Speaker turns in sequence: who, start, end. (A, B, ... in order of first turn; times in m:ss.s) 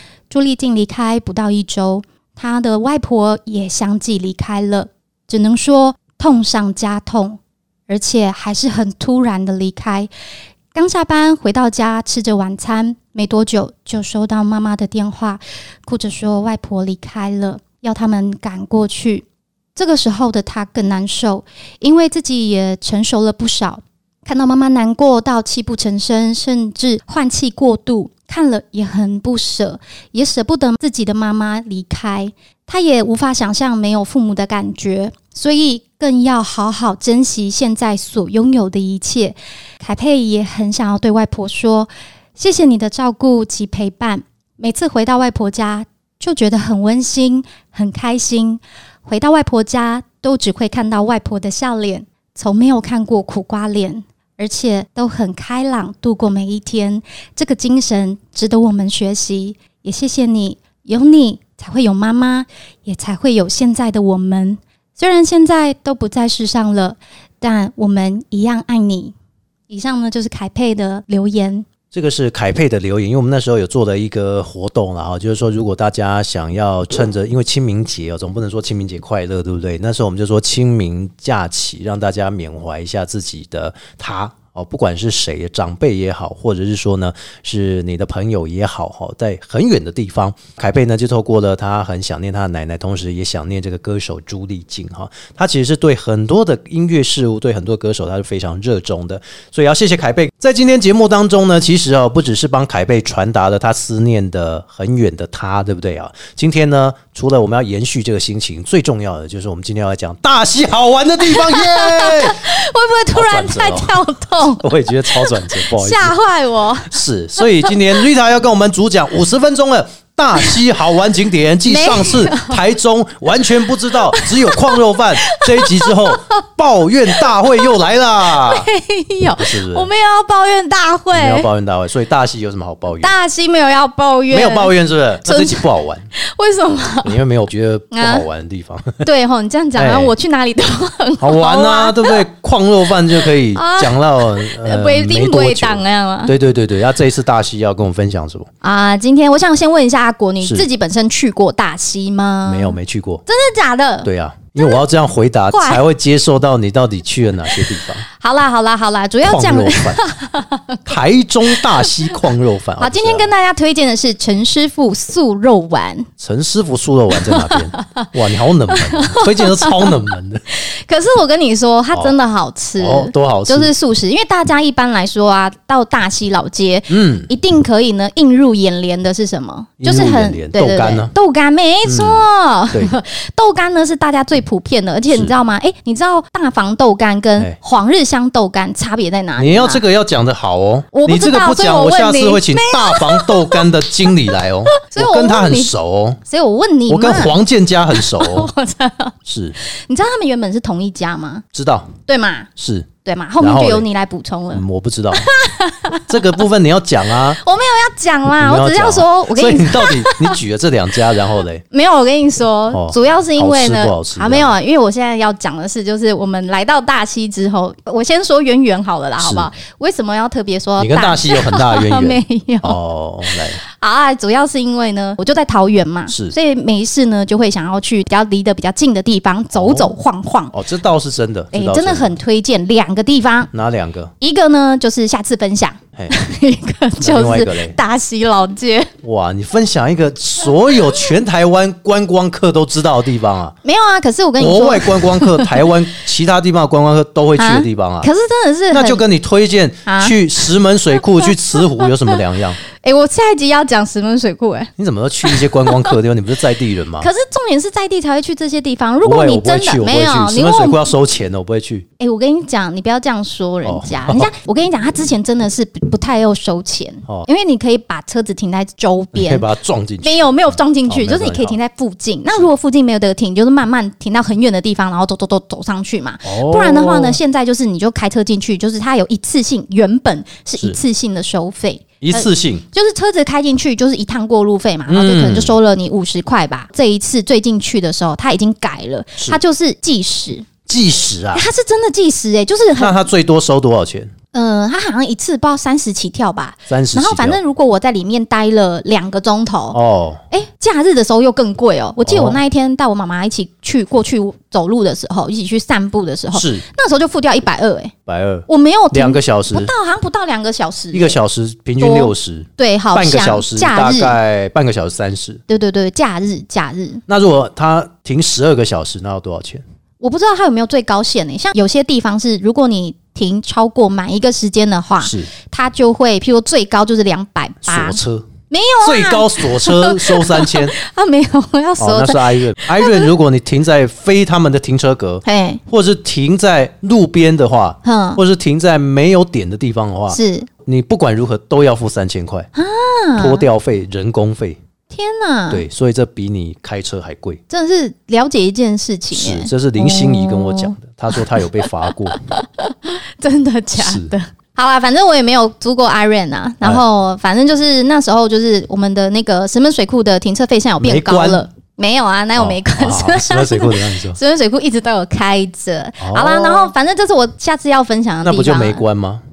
0:00.3-0:10.1 A
0:10.7-1:09.1 A
1:09.7-1:11.7 A
1:11.9-1:52.5 B
1:51.2-1:57.8 A
1:53.1-1:56.2 B
1:56.9-2:08.7 B
2:01.6-2:02.6 A
2:03.9-2:06.3 A
2:07.1-2:11.5 A
2:09.3-2:09.9 B
2:11.1-2:13.1 B
2:13.0-2:17.2 A
2:14.3-2:16.1 B
2:17.0-2:19.0 B
2:17.9-2:18.2 A
2:19.0-2:22.2 A
2:19.8-2:20.1 B
2:21.2-2:28.5 B
2:23.1-2:26.3 A
2:28.6-2:34.8 A
2:30.4-2:30.7 B
2:32.4-2:33.2 B
2:34.0-2:38.0 B
2:35.5-2:35.8 A
2:37.5-2:40.8 A
2:39.2-2:40.0 B
2:40.8-2:43.3 B
2:41.5-2:42.2 A
2:42.8-2:46.1 A
2:46.2-2:50.4 B
2:47.1-2:48.1 A
2:48.7-3:09.8 A
2:52.8-2:53.7 B
2:56.9-2:57.3 B
2:59.8-3:01.1 B
3:01.8-3:02.9 B
3:09.4-3:16.2 B
3:10.9-3:13.7 A
3:14.7-3:15.7 A
3:16.2-3:17.4 A
3:16.9-3:18.5 B
3:17.9-3:21.4 A
3:19.2-3:19.6 B
3:21.5-3:21.9 B
3:22.1-3:22.5 A
3:22.6-3:22.9 B
3:23.0-3:26.4 A
3:23.4-3:23.8 B
3:24.5-3:25.3 B
3:26.0-3:27.4 B
3:27.2-3:30.4 A
3:28.4-3:31.6 B
3:31.7-3:50.5 A
3:32.7-3:34.5 B
3:39.2-3:39.5 B
3:40.8-3:43.6 B
3:46.1-3:46.3 B
3:49.5-3:49.9 B
3:50.5-3:52.2 B
3:51.5-3:53.5 A
3:53.5-3:54.1 B
3:54.2-3:58.9 A
3:57.0-3:57.8 B
3:59.0-4:03.5 B
4:00.7-4:01.1 A
4:03.6-4:05.8 A
4:04.4-4:08.1 B
4:07.4-4:09.0 A
4:08.7-4:12.6 B
4:09.8-4:10.2 A
4:11.0-4:12.2 A
4:12.7-4:14.7 A
4:14.8-4:17.1 B
4:15.2-4:16.0 A
4:17.0-4:20.9 A
4:19.0-4:21.8 B
4:22.0-4:29.4 A
4:23.6-4:24.3 B
4:29.1-4:30.2 B
4:30.0-4:50.5 A
4:30.8-4:31.6 B
4:36.2-4:37.2 B
4:42.0-4:42.6 B
4:44.9-4:45.5 B
4:50.6-4:51.4 B
4:51.3-4:53.0 A
4:52.8-4:54.1 B
4:54.3-4:59.8 A
4:56.7-4:57.4 B
4:59.7-5:00.2 B
5:00.3-5:07.9 A
5:02.0-5:02.4 B
5:06.3-5:06.6 B
5:08.0-5:09.7 B
5:08.5-5:11.2 A
5:10.9-5:15.4 B
5:11.8-5:14.2 A
5:15.5-5:17.0 A
5:17.1-5:19.6 B
5:20.0-5:33.1 A
5:25.0-5:25.3 B
5:27.6-5:28.3 B
5:28.8-5:30.7 B
5:31.8-5:42.5 B
5:35.2-5:35.6 A
5:37.8-5:38.2 A
5:40.1-5:40.5 A
5:42.5-5:43.4 A
5:43.2-5:44.6 B
5:44.9-5:45.6 A
5:45.5-5:47.4 B
5:47.5-6:08.8 A
5:49.1-5:52.2 B
5:53.8-5:54.1 B
6:00.8-6:01.4 B
6:02.4-6:04.2 B
6:06.0-6:06.7 B
6:08.2-6:09.2 B